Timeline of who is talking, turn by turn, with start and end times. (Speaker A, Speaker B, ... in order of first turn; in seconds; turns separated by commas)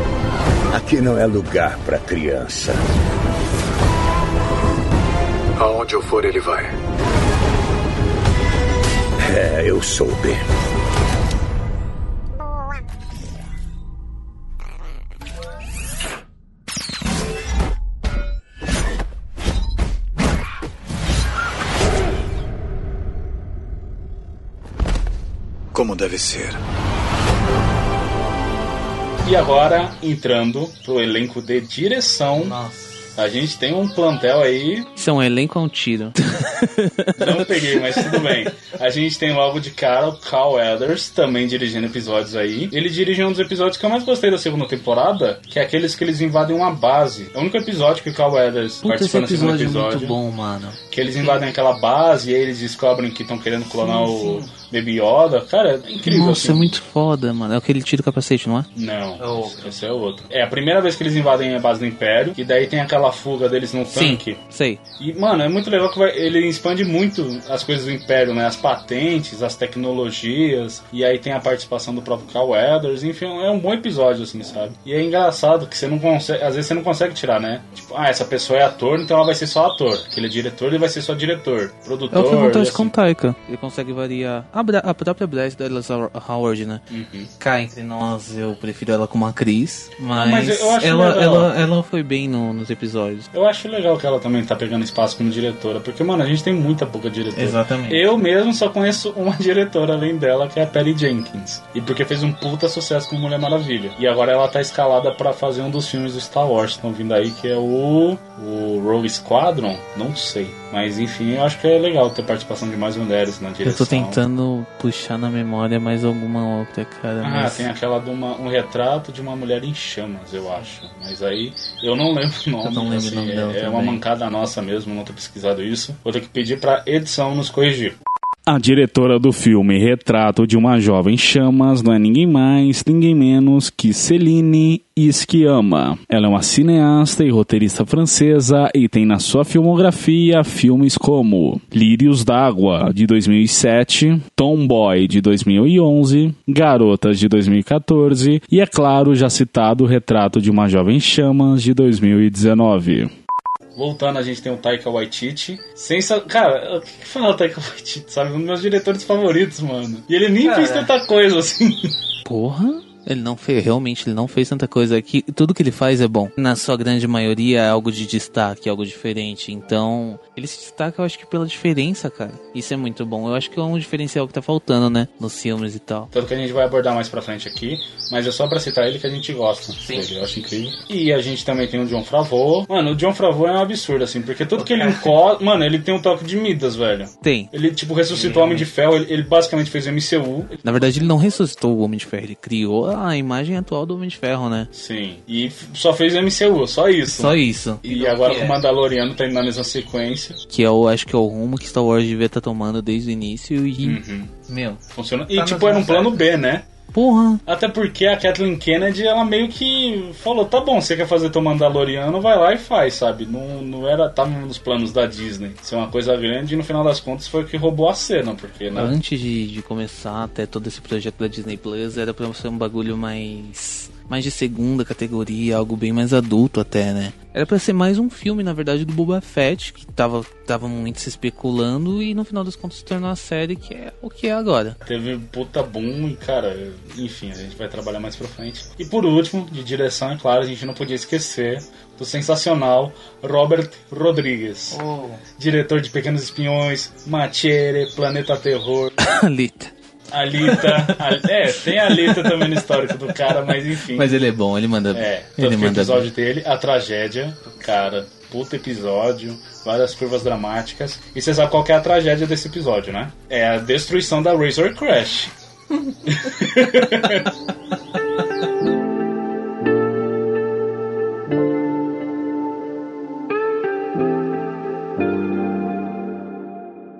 Speaker A: 0.7-2.8, Speaker B: 5.6-6.8, Speaker A: 9.2-10.4, Speaker B: 25.7-26.6, Speaker C: 29.2-32.6, Speaker D: 32.4-33.1, Speaker C: 33.1-34.9, Speaker D: 35.0-38.4, Speaker C: 37.2-50.1, Speaker D: 48.8-51.4, Speaker C: 50.9-56.8, Speaker D: 53.7-54.5, Speaker D: 56.0-59.7, Speaker C: 58.7-64.4, Speaker D: 63.9-64.8, Speaker C: 65.0-82.9, Speaker D: 82.1-86.8, Speaker C: 86.9-87.3, Speaker D: 87.4-93.3, Speaker C: 90.1-91.5, Speaker C: 93.3-114.2, Speaker D: 97.3-98.0, Speaker D: 113.6-117.7, Speaker C: 117.2-153.1, Speaker D: 122.6-124.0, Speaker C: 153.8-161.9, Speaker D: 160.4-160.9, Speaker D: 162.2-176.1, Speaker C: 176.1-190.7, Speaker D: 184.6-185.1, Speaker D: 187.2-187.5, Speaker D: 188.1-188.7, Speaker D: 190.6-194.7, Speaker C: 194.7-200.4, Speaker D: 197.1-198.6, Speaker D: 200.5-204.8, Speaker C: 203.8-204.3, Speaker C: 204.9-206.7, Speaker D: 205.3-206.2, Speaker D: 206.9-207.4, Speaker C: 207.4-218.9, Speaker D: 218.7-234.8, Speaker C: 234.8-244.8, Speaker D: 244.7-245.2, Speaker C: 245.4-248.9, Speaker D: 249.0-249.7, Speaker C: 250.1-254.1, Speaker D: 250.4-256.1, Speaker C: 254.9-265.3, Speaker C: 266.1-267.3